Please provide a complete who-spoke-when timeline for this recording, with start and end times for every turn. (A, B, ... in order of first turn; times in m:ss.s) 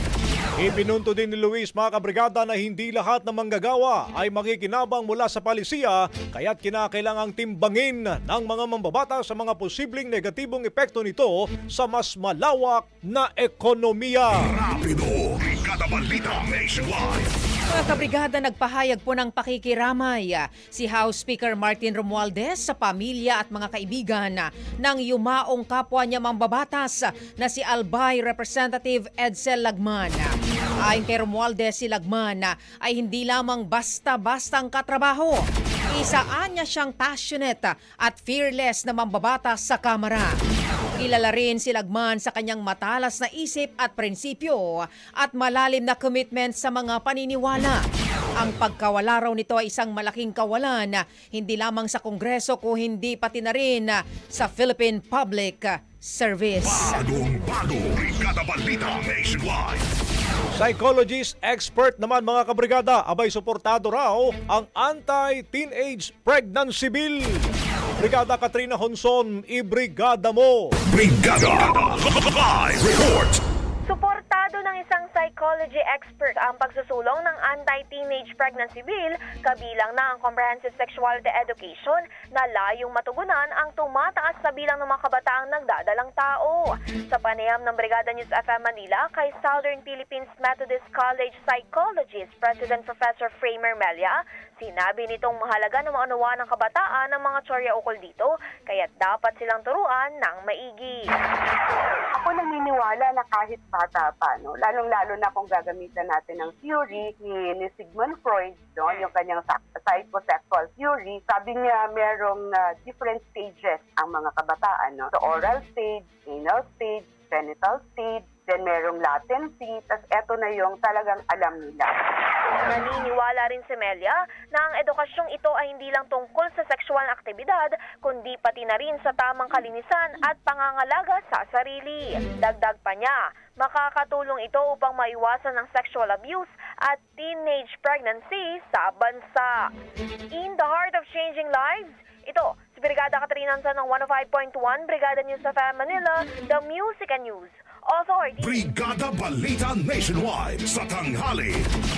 0:00.6-0:14.6 A
0:14.4-0:17.3 B
0:17.7-0:40.4 C
0:41.0-0:47.8 C
0:48.4-0:57.0 C
0:56.6-0:59.9 B
1:00.6-1:10.8 A
1:10.9-1:13.4 B
1:13.8-1:41.1 D
1:42.1-2:01.9 E
2:02.6-2:19.7 D
2:20.3-2:28.7 D
2:28.4-2:31.7 B